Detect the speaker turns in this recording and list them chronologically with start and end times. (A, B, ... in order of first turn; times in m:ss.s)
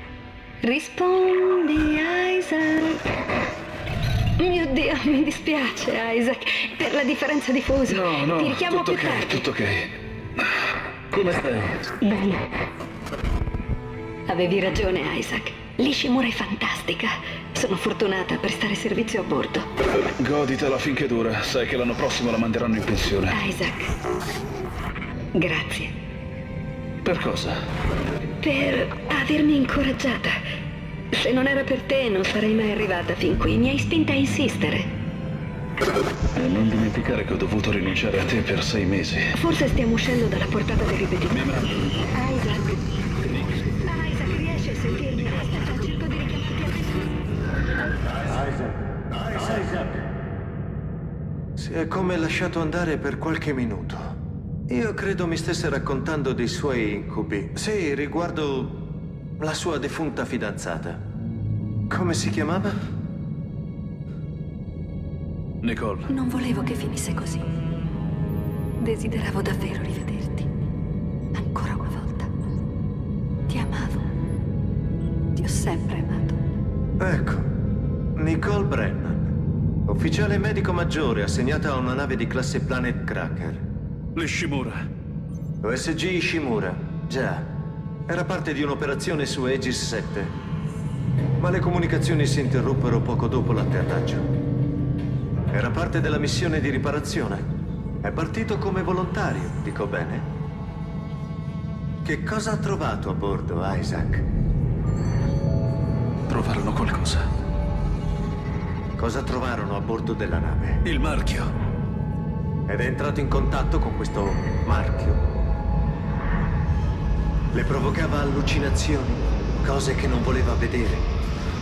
0:00.6-0:03.0 A
0:04.4-0:09.5 A
0:07.9-0:09.9 B
0:11.1-0:11.9 B
0:12.0-0:12.5 A
0:14.3-0:19.7 A
0:20.2-0:23.4 B
0:23.3-0:23.9 A
0:25.4-0:25.9 A
0:27.0-0:27.6 B
0:28.4-0:30.4 A
0:31.1-0:34.9 A
0:36.4-0:39.3 B
0:39.3-0:41.5 A
0:41.3-0:41.8 B
0:42.1-0:42.8 A
0:43.3-0:43.6 B
0:43.8-0:47.1 A
0:48.2-0:50.0 C
0:51.6-0:54.2 C
0:54.7-1:01.0 C
1:01.9-1:02.8 C
1:05.6-1:06.1 B
1:06.1-1:07.4 A
1:08.8-1:10.5 A
1:11.3-1:12.3 A
1:13.5-1:14.1 A
1:15.4-1:16.4 A
1:17.0-1:17.5 C
1:18.2-1:19.4 C
1:19.9-1:23.7 C
1:24.2-1:24.8 B
1:25.6-1:30.4 C
1:31.4-1:34.3 C
1:35.5-1:37.5 C
1:38.0-1:40.3 C
1:42.0-1:44.3 C
1:46.3-1:47.3 B
1:49.0-1:50.8 C
1:50.8-1:51.5 B
1:52.7-1:55.3 C
1:57.5-2:01.1 C